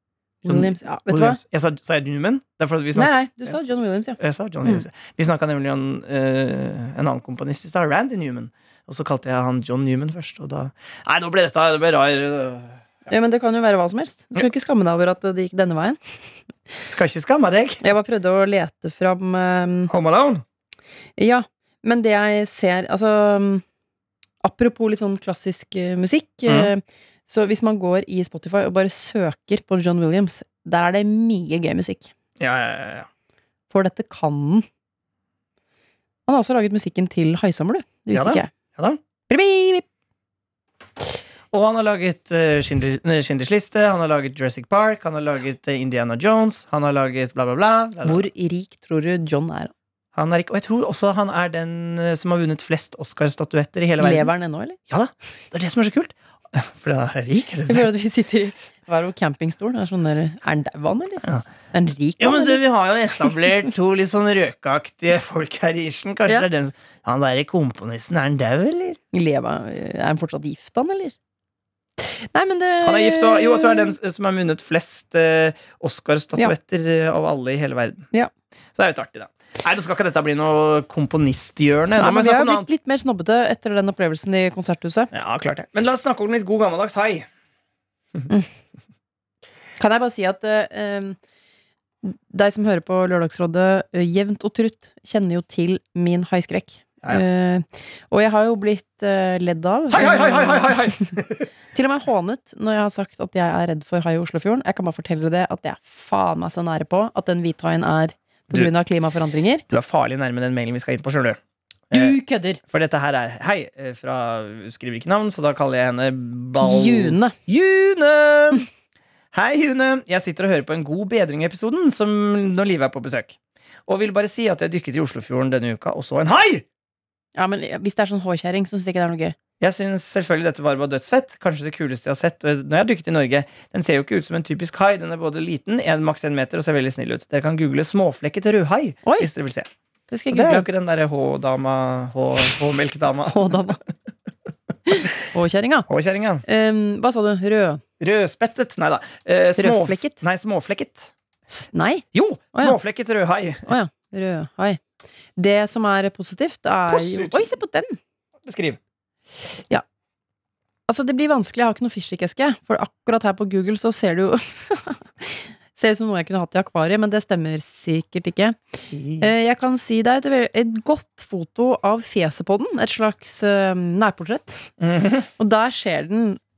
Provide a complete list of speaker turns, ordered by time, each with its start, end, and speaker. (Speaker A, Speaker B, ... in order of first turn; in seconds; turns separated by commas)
Speaker A: 0.4-3.5, Speaker B: 0.5-1.4, Speaker B: 2.9-4.8, Speaker A: 4.2-12.8, Speaker B: 13.1-16.0, Speaker A: 16.9-17.8, Speaker B: 17.8-19.9, Speaker A: 19.9-20.4, Speaker B: 21.2-23.6, Speaker B: 24.4-32.1, Speaker A: 32.4-33.1, Speaker B: 33.7-34.6, Speaker B: 36.3-38.5, Speaker A: 38.1-39.0, Speaker B: 39.3-39.8, Speaker A: 41.5-48.2, Speaker B: 48.0-49.7, Speaker A: 50.1-54.3, Speaker B: 54.0-54.8, Speaker A: 54.9-57.9, Speaker B: 57.7-62.6, Speaker A: 62.2-69.0, Speaker B: 69.1-71.1, Speaker B: 72.0-73.9, Speaker A: 72.8-78.1, Speaker A: 78.7-82.7, Speaker B: 82.0-85.1, Speaker A: 85.1-87.2, Speaker B: 89.8-91.2, Speaker B: 92.0-101.1, Speaker A: 99.9-101.5, Speaker B: 101.7-109.6, Speaker A: 109.7-111.4, Speaker B: 111.9-112.6, Speaker A: 112.7-118.7, Speaker B: 116.6-117.3, Speaker A: 119.3-123.3, Speaker A: 123.9-126.6, Speaker B: 127.3-129.3, Speaker A: 129.6-139.7, Speaker B: 140.1-140.7, Speaker A: 140.3-143.6, Speaker B: 143.3-143.8, Speaker B: 144.9-145.9, Speaker A: 145.9-146.4, Speaker B: 146.4-147.8, Speaker A: 148.0-151.1, Speaker B: 149.6-150.2, Speaker B: 151.5-152.8, Speaker A: 152.1-153.7, Speaker B: 153.7-154.8, Speaker B: 155.3-158.0, Speaker A: 156.9-157.5, Speaker A: 158.4-158.8, Speaker B: 160.9-174.7, Speaker A: 168.8-169.3, Speaker A: 174.8-175.3, Speaker B: 175.4-176.4